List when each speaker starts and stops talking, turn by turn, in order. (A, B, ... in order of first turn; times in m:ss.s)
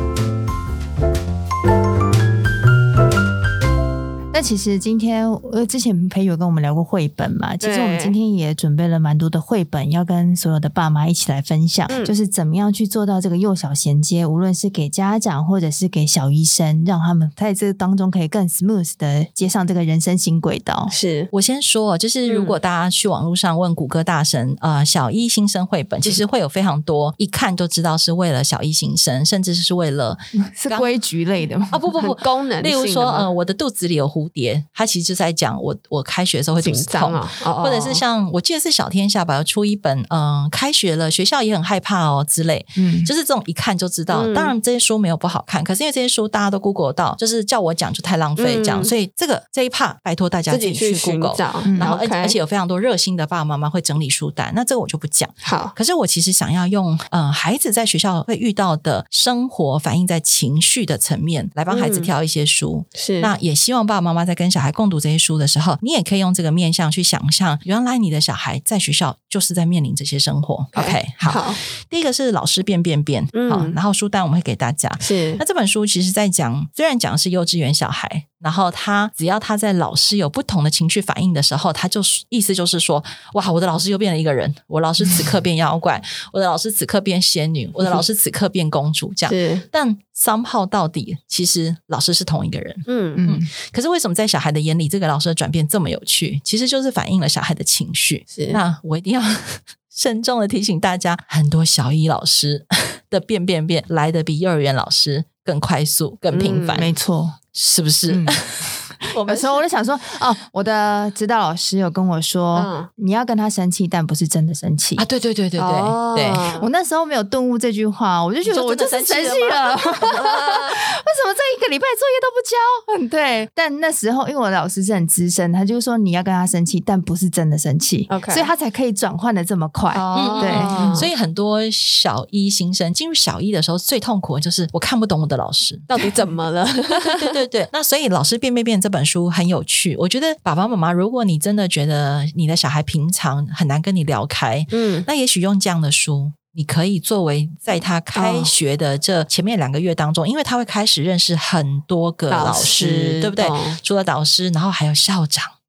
0:04.3-0:21.0 A
0:07.6-0:08.2 B
0:11.9-0:12.1 B
0:20.9-0:21.3 B
0:21.3-0:30.9 C
0:22.2-0:22.6 B
0:30.4-0:31.8 A
0:31.7-1:46.9 C
0:32.0-0:33.3 B
0:36.6-0:38.0 B
0:42.8-0:43.1 A
0:44.1-0:44.5 B
0:48.4-0:48.9 B
0:50.5-0:52.4 B
0:51.6-0:52.0 A
0:55.4-0:55.7 B
1:01.7-1:02.1 B
1:02.9-1:03.3 B
1:10.7-1:11.6 B
1:13.3-1:13.7 B
1:15.0-1:15.4 B
1:29.3-1:29.6 B
1:32.9-1:33.2 B
1:33.2-1:33.5 A
1:38.3-1:38.6 B
1:46.3-1:46.9 B
1:46.7-1:47.4 A
1:47.5-1:49.6 C
1:48.1-1:48.5 A
1:49.0-1:55.0 A
1:52.5-1:52.9 B
1:55.0-1:56.4 C
1:55.6-1:56.6 B
1:56.5-2:11.0 A
1:58.4-2:00.1 C
2:00.0-2:00.8 B
2:08.1-2:08.5 B
2:09.9-2:11.1 B
2:10.1-2:15.9 C
2:15.9-2:17.4 B
2:16.9-2:35.5 C
2:24.7-2:25.1 B
2:28.1-2:28.5 B
2:32.3-2:33.8 B